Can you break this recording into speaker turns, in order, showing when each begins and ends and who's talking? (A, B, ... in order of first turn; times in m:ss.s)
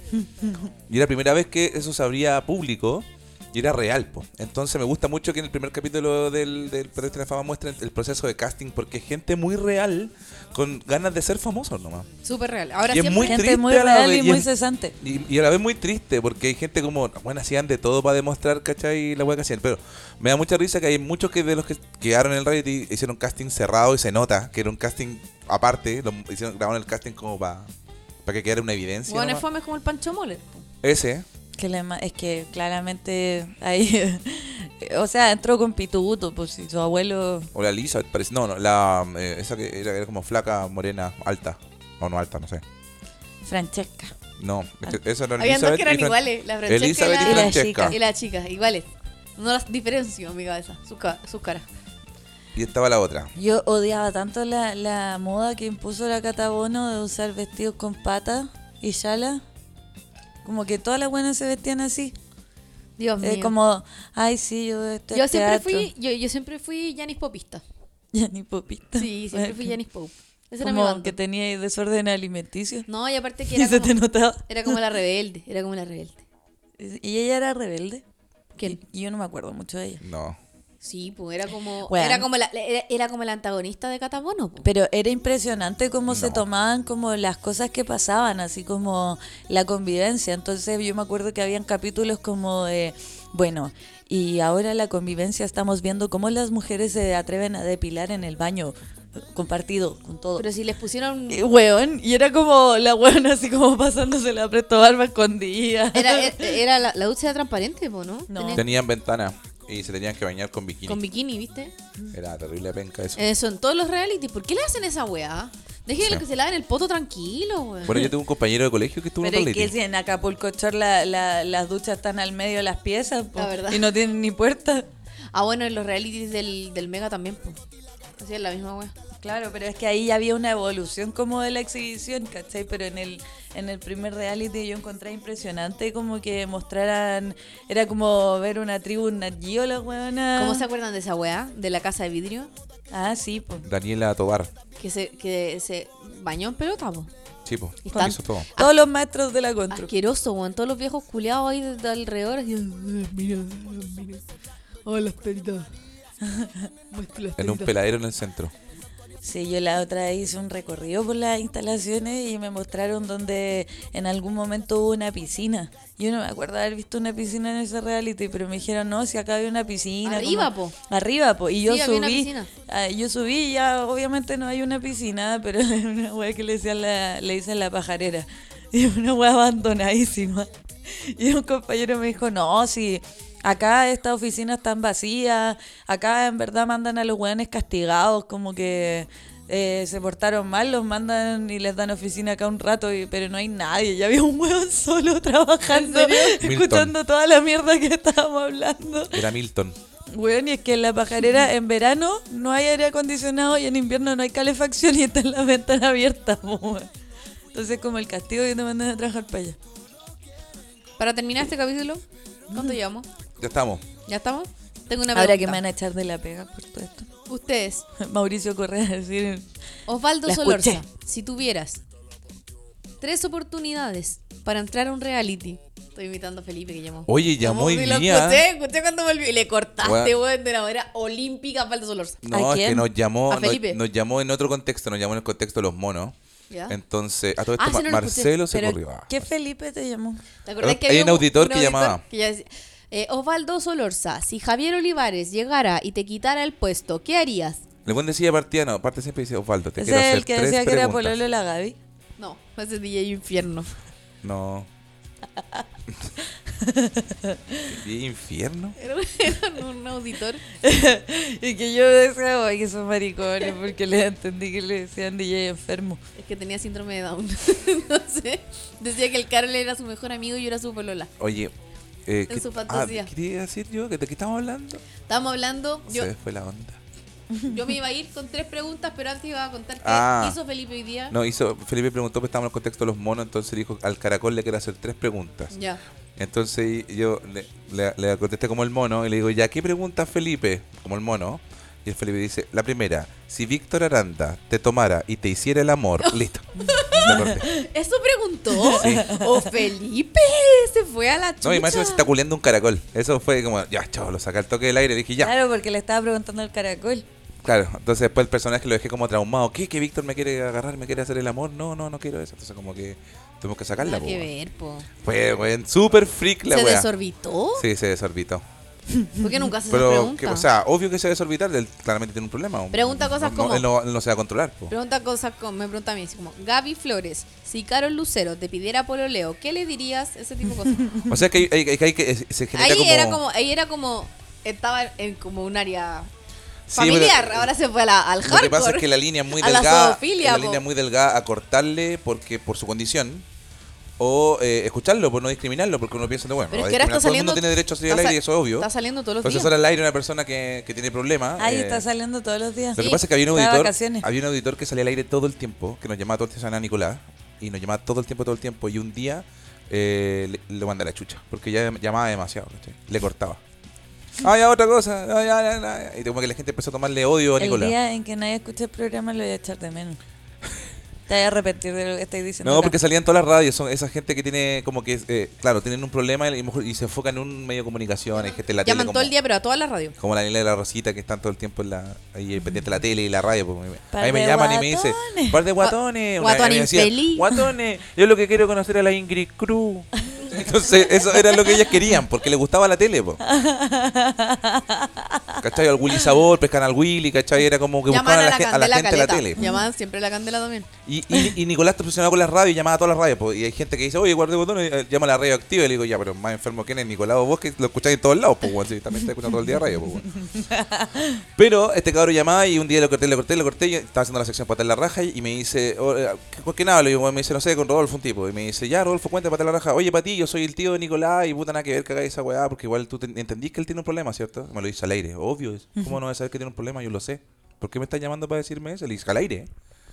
0:00.2-0:00.7 A
0:00.9-0:12.1 B
0:12.2-0:13.4 C
0:12.9-0:14.5 B
0:13.2-0:14.9 A
0:15.0-0:27.7 B
0:28.2-0:29.4 B
0:29.1-0:30.7 C
0:30.8-0:31.2 B
0:31.6-0:37.5 A
0:37.5-0:42.6 B
0:43.4-0:44.1 A
0:44.4-0:48.0 B
0:45.4-0:51.6 C
0:47.2-0:48.0 A
0:52.5-0:53.3 B
0:53.4-0:59.4 A
1:00.4-1:02.1 A
1:03.0-1:03.5 C
1:03.2-1:05.9 A
1:05.1-1:07.6 C
1:08.1-1:09.8 A
1:09.0-1:11.2 C
1:10.6-1:12.9 A
1:12.9-1:14.0 C
1:13.5-1:14.8 A
1:14.5-1:16.2 C
1:16.8-1:18.0 A
1:18.6-1:20.0 A
1:20.0-1:20.4 B
1:20.8-1:24.7 C
1:21.9-1:22.3 A
1:24.6-1:38.7 A
1:26.1-1:26.4 B
1:39.3-1:40.4 A
1:40.4-1:41.4 C
1:41.3-1:46.6 A
1:45.9-1:48.7 C
1:48.3-1:48.6 A
1:48.5-1:51.0 B
1:50.8-1:51.7 C
1:52.1-1:53.2 B
1:53.2-1:58.1 C
1:57.8-1:59.7 B
1:59.2-2:04.8 A
2:03.4-2:03.9 C
2:05.3-2:07.6 C
2:08.2-2:08.9 C
2:09.2-2:20.6 A
2:20.3-2:22.5 C
2:22.9-2:23.6 A
2:23.6-2:24.5 B
2:24.8-2:27.1 C
2:27.4-2:28.5 B
2:27.8-2:28.8 C
2:27.9-2:29.9 A
2:29.7-2:34.2 C
2:34.8-2:35.6 C
2:36.2-2:36.7 A
2:36.9-2:37.7 C
2:37.4-2:38.5 B
2:39.2-3:19.3 A
2:50.0-2:50.8 C
2:51.6-2:52.5 C
3:15.7-3:16.4 C
3:16.4-3:16.9 B
3:19.1-3:19.8 B
3:20.1-3:26.9 A
3:27.5-3:29.6 A
3:31.0-3:33.1 C
3:32.5-3:32.8 A
3:33.4-3:33.8 B
3:34.0-3:35.6 C
3:35.1-3:37.1 A
3:37.3-3:37.8 C
3:38.0-3:39.4 A
3:39.9-3:41.8 C
3:40.2-3:40.8 A
3:43.0-3:52.2 C
3:47.1-3:48.4 B
3:49.8-3:50.1 B
3:52.2-3:56.1 B
3:52.3-3:52.9 A
3:53.3-3:53.8 C
3:56.5-3:56.8 C
3:56.7-3:59.2 B
3:57.6-3:58.8 C
3:59.1-4:00.2 A
4:00.4-4:07.6 C
4:00.6-4:02.0 B
4:07.8-4:11.2 B
4:09.8-4:11.8 A
4:12.2-4:13.7 C
4:14.2-4:14.7 B
4:16.5-4:17.7 A
4:17.7-4:18.8 B
4:18.8-4:20.4 C
4:20.6-4:26.0 A
4:26.2-4:31.1 C
4:31.2-4:31.5 B
4:32.0-4:34.8 B
4:32.3-4:33.1 C
4:35.1-4:36.1 C
4:35.9-4:36.8 B
4:37.4-4:41.1 C
4:39.8-4:40.4 B
4:41.1-4:45.5 B
4:45.5-4:45.8 C
4:46.2-4:57.5 B
4:56.0-5:02.1 C
4:56.6-4:57.6 A
4:58.5-4:59.4 A
4:58.8-4:59.1 B
5:01.4-5:05.3 B
5:05.2-5:07.0 A
5:07.4-5:14.3 B
5:13.8-5:14.9 C
5:15.0-5:16.9 B
5:16.5-5:17.6 C
5:17.6-5:18.4 B
5:18.9-5:19.3 A
5:19.2-5:20.5 C
5:19.7-5:24.7 B
5:22.7-5:23.7 C
5:24.7-5:31.0 C
5:31.1-5:33.2 B
5:32.5-5:36.1 C
5:36.7-5:37.5 B
5:36.7-5:40.6 C
5:38.2-5:43.2 B
5:44.0-5:48.7 B
5:46.5-5:49.5 C
5:49.2-5:51.8 B
5:51.4-5:54.0 A
5:52.8-5:53.0 C
5:52.8-6:03.4 B
6:04.2-6:07.8 B
6:07.4-6:10.0 A
6:11.1-6:12.8 A
6:12.4-6:19.1 B
6:18.2-6:19.9 C
6:20.0-6:33.2 B
6:23.9-6:25.4 A
6:25.6-6:27.3 C
6:33.2-6:35.4 A
6:35.4-6:39.4 B
6:37.9-6:40.7 C
6:39.4-6:39.6 A
6:40.8-6:50.1 B
6:50.1-6:51.2 A
6:51.4-7:09.5 B